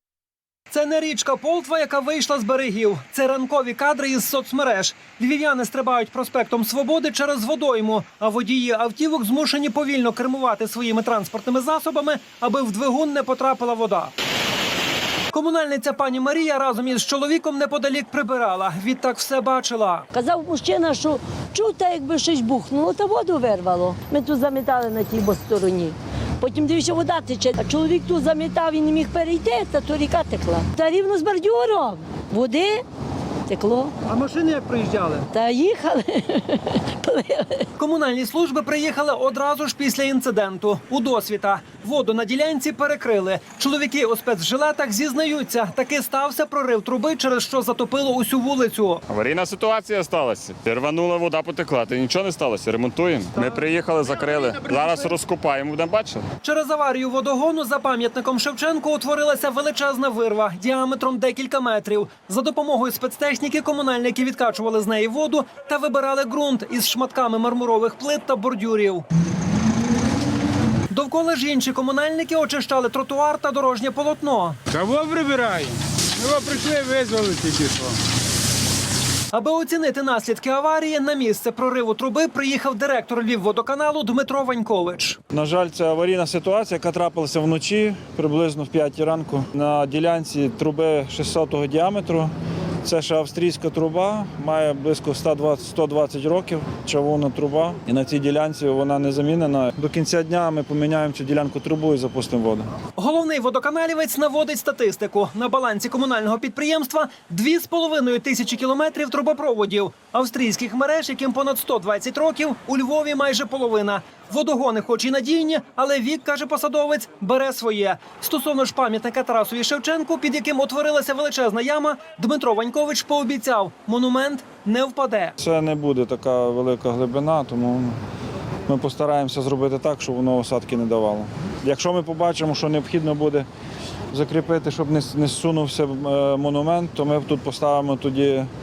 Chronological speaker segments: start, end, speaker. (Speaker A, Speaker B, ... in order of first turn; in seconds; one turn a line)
Speaker A: 0.7-14.1
Speaker A: 15.3-20.1
Speaker B: 20.1-32.8
Speaker B: 33.5-33.9
Speaker A: 34.1-35.3
Speaker B: 35.3-37.7
Speaker A: 37.8-49.0
Speaker C: 49.1-56.2
Speaker A: 53.4-55.1
Speaker A: 56.4-69.0
Speaker A: 70.9-74.6
Speaker D: 74.7-78.0
Speaker A: 79.3-85.2
Speaker E: 85.3-92.3
Speaker E: 92.8-102.7
Speaker A: 103.0-125.3
Speaker E: 125.4-128.0
Speaker E: 128.7-133.4
Speaker E: 134.1-138.5